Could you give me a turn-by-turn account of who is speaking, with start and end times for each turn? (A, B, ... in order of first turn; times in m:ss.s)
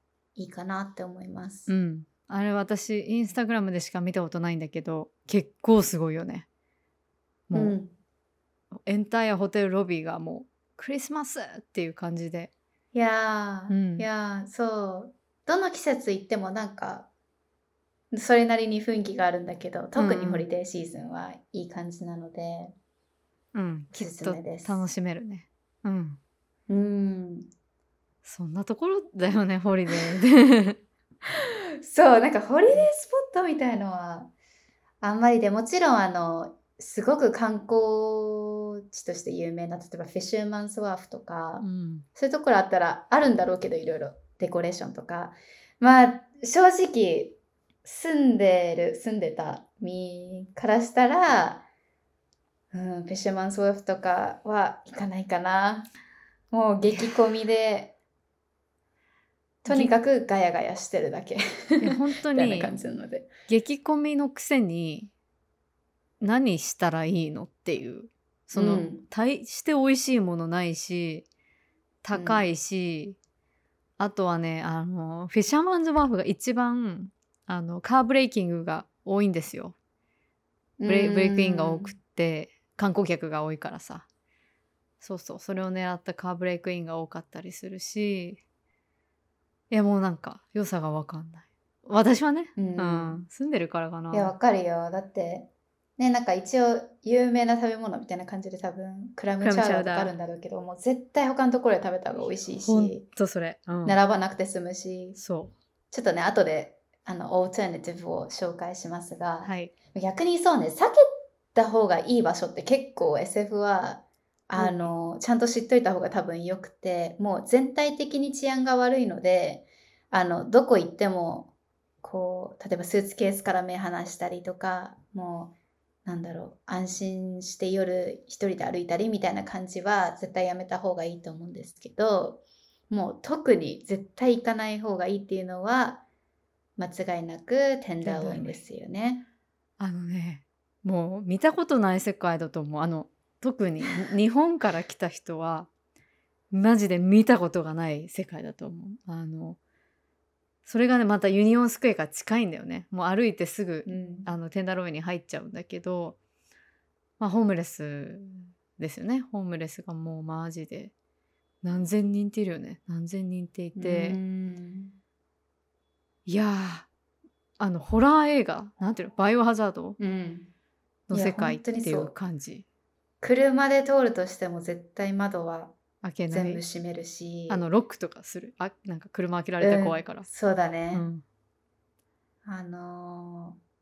0:00.4-0:01.7 A
0:01.7-0:06.5 B
0:07.5-0:07.8 B
0:07.5-0:07.9 A
0:08.8-0:12.5 B
0:12.9-0:17.1 A
0:13.7-0:14.1 B
0:18.1-0:22.7 A
0:20.0-0:20.5 B
0:23.5-0:26.2 B
0:23.9-0:24.9 A
0:26.7-0:27.5 A
0:28.2-0:30.8 B
0:31.8-0:34.3 A
0:35.0-0:51.7 A
0:41.6-0:42.1 B
0:52.7-0:55.9 A
0:56.5-0:58.0 A
0:59.6-0:59.9 B
0:59.6-1:03.3 A
1:01.8-1:02.8 B
1:03.5-1:05.1 B
1:06.2-1:11.3 B
1:08.5-1:09.0 A
1:12.0-1:13.2 B
1:12.1-1:12.4 A
1:14.0-1:19.8 B
1:20.8-1:22.0 A
1:20.9-1:24.1 B
1:25.0-1:28.4 B
1:29.7-1:34.3 B
1:32.6-1:33.2 A
1:34.1-1:43.0 A
1:39.4-1:40.1 B
1:42.6-1:44.0 B
1:43.8-1:45.2 A
1:45.2-1:45.5 B
1:45.9-1:51.0 A
1:49.4-1:49.7 B
1:51.5-2:01.5 A
1:54.6-1:54.9 B
2:02.0-2:05.5 A
2:06.0-2:16.0 A
2:16.8-2:19.3 A
2:18.0-2:18.6 B
2:19.8-2:25.7 B
2:26.5-2:29.6 B
2:30.6-2:36.2 B
2:33.9-2:34.3 A
2:37.2-2:40.9 B
2:41.6-2:44.2 B
2:43.8-2:45.0 A
2:46.3-2:46.9 B
2:47.6-2:50.0 B
2:50.0-2:50.5 A
2:51.1-2:52.6 B
2:51.1-2:52.1 A
2:53.2-2:55.8 A
2:56.0-2:56.6 B
2:56.3-2:57.6 A
2:57.5-3:00.3 B
2:59.6-3:01.1 A
3:00.9-3:01.2 B
3:02.4-3:03.6 A